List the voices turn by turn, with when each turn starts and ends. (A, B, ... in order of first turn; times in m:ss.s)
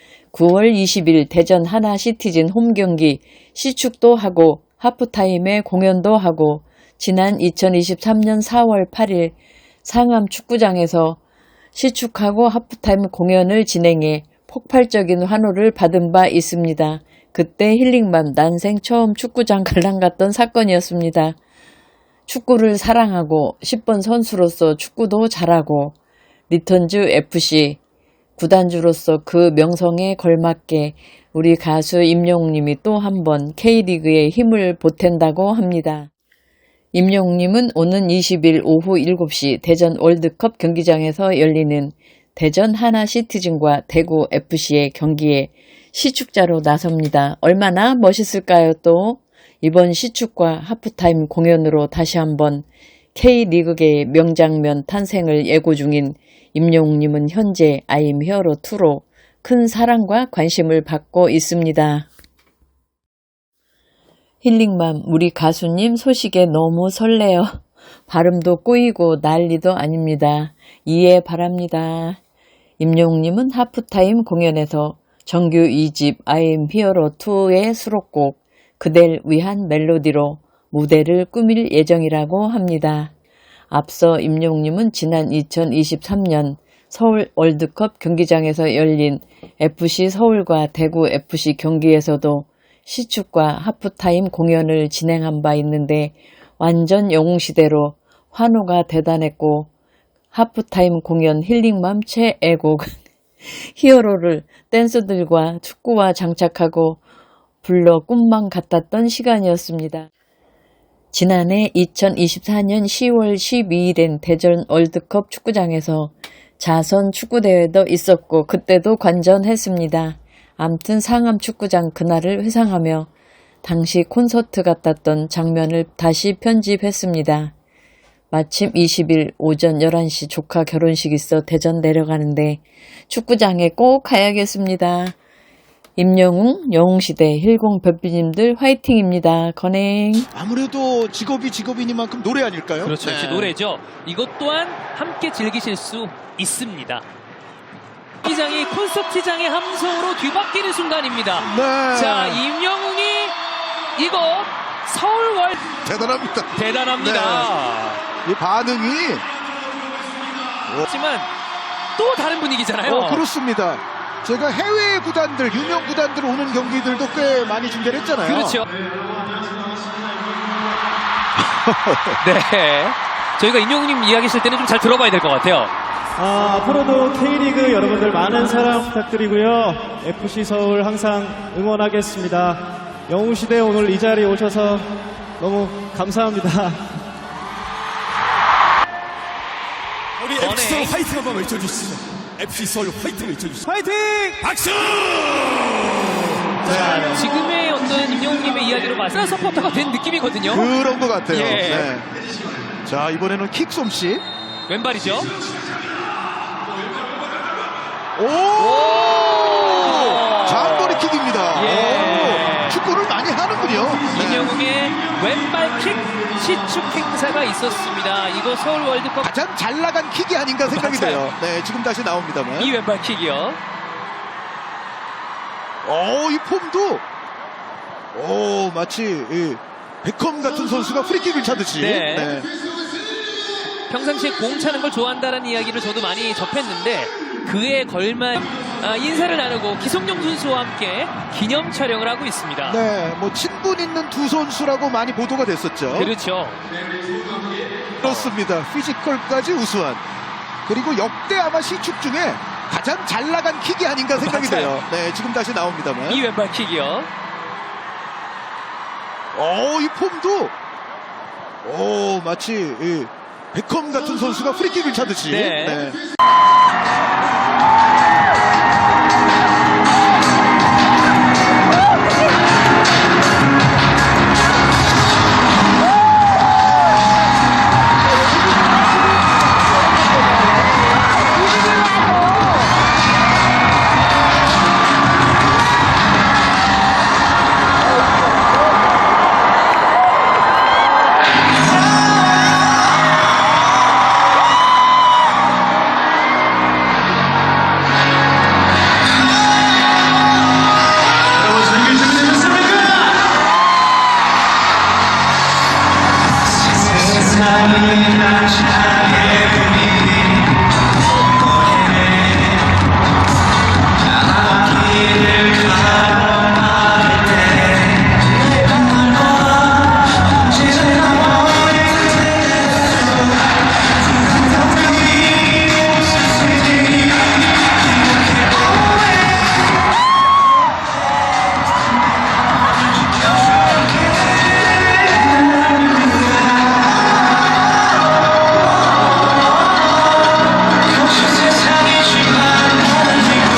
0:00.3-0:11.2 A
0:11.7-0:21.4 A
0:22.3-0:26.0 A
0:26.5-0:27.8 A
0:28.4-0:36.1 A
0:36.9-1:02.1 A
1:04.4-1:12.2 A
1:12.8-1:23.1 A
1:23.7-1:39.7 A
1:40.3-1:47.0 A
1:47.6-1:50.1 A
1:51.1-2:03.1 A
2:03.6-2:07.5 A
2:08.3-2:15.1 A
2:16.0-2:20.3 A
2:20.3-2:23.5 B
2:22.8-2:27.0 C
2:28.2-2:33.4 C
2:31.4-2:32.4 B
2:33.9-2:35.8 C
2:35.8-2:37.5 B
2:36.5-2:38.0 C
2:38.2-2:39.3 B
2:40.8-2:41.3 C
2:42.0-2:43.2 C
2:42.8-2:48.6 B
2:48.2-2:48.7 C
2:48.8-2:50.7 D
2:51.4-2:52.2 B
2:52.2-2:55.7 C
2:56.2-3:07.0 D
3:10.2-3:13.7 E
3:10.3-3:11.1 C
3:13.6-3:14.5 D
3:14.4-3:16.4 E
3:16.6-3:20.7 C
3:20.5-3:22.0 B
3:21.3-3:21.9 C
3:22.8-3:24.2 B
3:24.7-3:25.3 C
3:28.2-3:34.6 B
3:28.6-3:32.8 C
3:34.0-3:39.3 C
3:39.2-3:42.7 B
3:40.7-3:41.3 C
3:42.6-3:43.6 C
3:45.8-3:47.0 B
3:48.1-3:52.6 B
3:51.8-3:52.4 C
3:53.9-4:02.8 C
4:02.7-4:06.1 B
4:05.9-4:06.6 C
4:08.0-4:10.0 B
4:08.0-4:08.3 C
4:10.6-4:16.2 B
4:14.2-4:14.8 C
4:16.1-4:17.1 C
4:19.3-4:20.5 B
4:21.6-4:26.0 B
4:25.3-4:25.9 C
5:01.9-5:02.7 D
5:06.8-5:09.7 C
5:14.9-5:17.6 C
5:20.7-5:22.2 C
5:24.8-5:25.5 C